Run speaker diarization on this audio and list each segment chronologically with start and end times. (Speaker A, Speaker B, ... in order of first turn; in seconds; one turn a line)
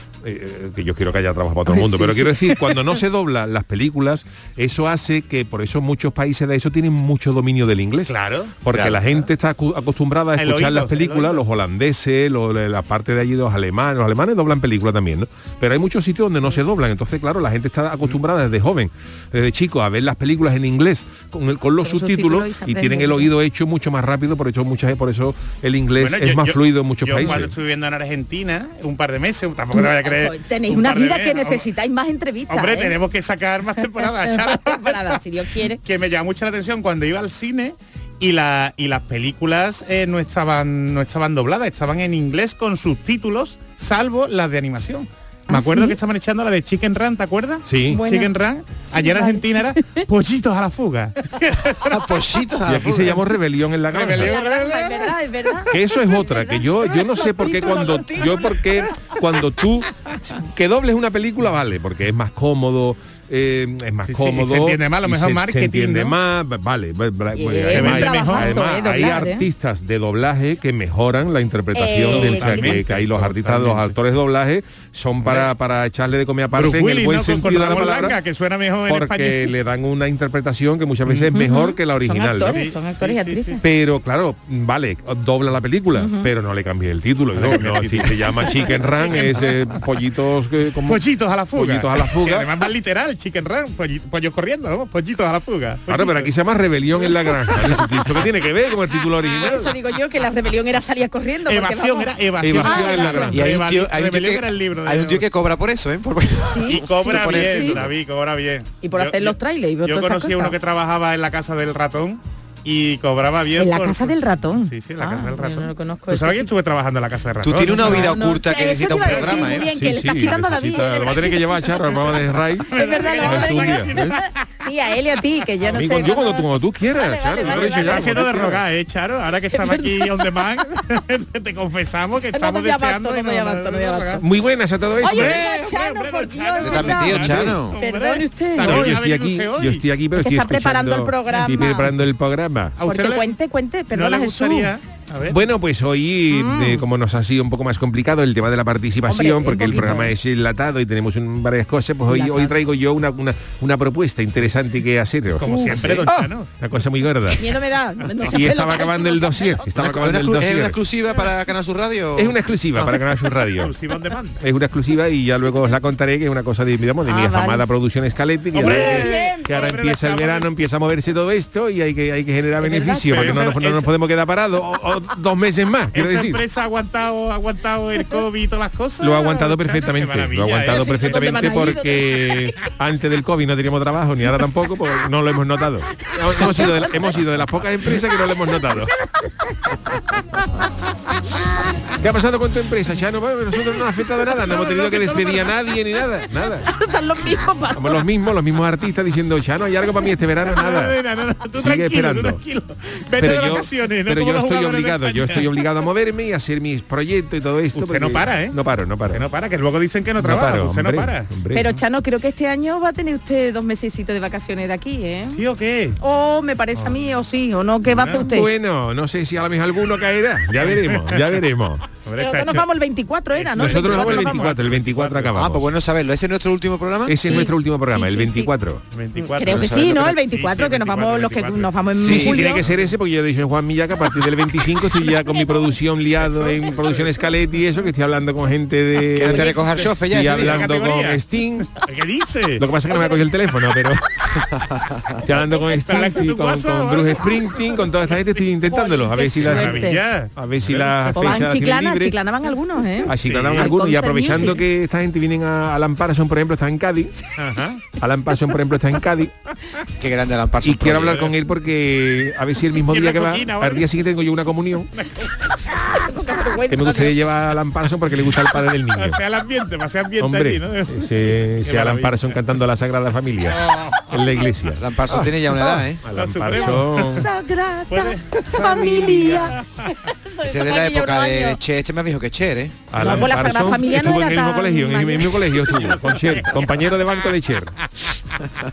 Speaker A: 0.2-27.5
Speaker B: 1.7-2.6
Speaker C: 8.1-8.6
Speaker D: 8.7-9.0
Speaker C: 10.4-11.4
Speaker B: 21.8-23.3
Speaker C: 26.0-31.7
Speaker B: 29.7-33.0
Speaker C: 32.5-35.2
Speaker B: 33.9-35.8
Speaker C: 35.8-52.0
Speaker B: 45.5-46.0
Speaker A: 47.6-48.0
Speaker B: 47.9-48.3
Speaker B: 48.9-50.0
Speaker D: 51.9-53.2
Speaker A: 52.6-54.4
Speaker C: 53.9-55.1
Speaker B: 54.2-59.0
Speaker A: 55.7-78.2
Speaker C: 64.1-66.2
Speaker B: 67.3-69.5
Speaker C: 67.7-68.6
Speaker B: 71.7-72.8
Speaker C: 72.0-73.9
Speaker C: 75.2-75.5
Speaker C: 76.5-79.5
Speaker A: 78.9-82.7
Speaker B: 81.3-83.6
Speaker C: 82.4-83.6
Speaker A: 83.6-92.5
Speaker B: 86.0-86.3
Speaker C: 87.3-89.8
Speaker C: 90.8-96.3
Speaker A: 95.9-99.8
Speaker B: 99.2-103.4
Speaker C: 101.5-105.3
Speaker A: 102.4-103.4
Speaker D: 103.3-107.9
Speaker B: 106.5-107.8
Speaker C: 106.6-118.3
Speaker B: 108.8-110.5
Speaker B: 113.6-116.5
Speaker D: 117.4-119.7
Speaker B: 117.8-121.8
Speaker C: 118.8-119.6
Speaker A: 119.7-124.2
Speaker C: 122.7-124.2
Speaker B: 122.7-128.4
Speaker C: 125.7-126.1
Speaker A: 125.7-128.6
Speaker C: 127.4-134.2
Speaker B: 129.5-130.4
Speaker B: 132.3-134.2
Speaker A: 134.2-135.5
Speaker B: 135.0-139.0
Speaker C: 135.0-139.8
Speaker D: 136.6-137.8
Speaker A: 138.6-142.8
Speaker B: 140.2-141.9
Speaker C: 142.8-143.3
Speaker B: 142.8-144.7
Speaker C: 143.9-145.4
Speaker A: 145.3-157.5
Speaker B: 146.3-146.8
Speaker B: 149.1-150.1
Speaker B: 152.1-152.6
Speaker C: 155.4-156.5
Speaker B: 155.4-155.9
Speaker B: 157.4-159.7
Speaker A: 158.2-160.8
Speaker D: 159.8-162.4
Speaker A: 162.2-163.8
Speaker C: 162.8-164.4
Speaker A: 164.4-176.4
Speaker B: 167.0-167.7
Speaker C: 168.5-170.5
Speaker B: 168.5-169.8
Speaker B: 172.6-173.6
Speaker C: 173.1-173.9
Speaker C: 175.9-181.5
Speaker A: 179.0-188.9
Speaker B: 180.7-182.5
Speaker B: 186.4-186.9
Speaker A: 192.0-196.7
Speaker C: 194.4-195.6
Speaker B: 196.7-198.0
Speaker A: 197.7-201.0
Speaker C: 200.5-205.5
Speaker A: 201.5-202.4
Speaker A: 203.2-209.2
Speaker C: 207.7-208.6
Speaker C: 209.1-211.3
Speaker A: 210.2-211.7
Speaker B: 211.5-215.4
Speaker C: 215.3-216.0
Speaker B: 216.0-218.5
Speaker C: 217.9-218.3
Speaker A: 218.2-221.8
Speaker C: 220.6-221.3
Speaker C: 222.0-222.7
Speaker B: 222.2-224.5
Speaker C: 223.3-225.4
Speaker A: 223.6-225.7
Speaker D: 225.3-227.3
Speaker A: 227.1-228.8
Speaker B: 227.2-228.5
Speaker C: 228.9-231.8
Speaker B: 229.3-232.7
Speaker A: 229.5-230.2
Speaker D: 231.9-232.4
Speaker A: 232.1-241.8
Speaker B: 235.4-235.7
Speaker C: 236.2-237.3
Speaker D: 239.1-240.7
Speaker B: 239.2-239.5
Speaker C: 239.3-242.7
Speaker A: 242.6-244.1
Speaker A: 245.2-252.2
Speaker C: 245.6-247.4
Speaker B: 248.6-250.0
Speaker C: 249.4-251.4
Speaker B: 251.1-254.6
Speaker A: 253.1-257.1
Speaker C: 253.2-253.7
Speaker C: 257.4-257.8
Speaker A: 257.9-259.3
Speaker D: 260.0-261.1
Speaker A: 260.6-264.9
Speaker C: 261.1-261.3
Speaker C: 262.8-263.9
Speaker C: 265.0-265.3
Speaker B: 265.8-267.1
Speaker A: 266.7-269.2
Speaker C: 268.9-272.3
Speaker A: 270.2-277.3
Speaker C: 273.5-274.5
Speaker D: 274.8-276.0
Speaker C: 276.1-277.3
Speaker B: 277.0-281.6
Speaker C: 277.9-279.9
Speaker D: 280.4-282.9
Speaker A: 282.9-287.7
Speaker B: 282.9-285.7
Speaker C: 283.0-283.8
Speaker C: 285.8-286.8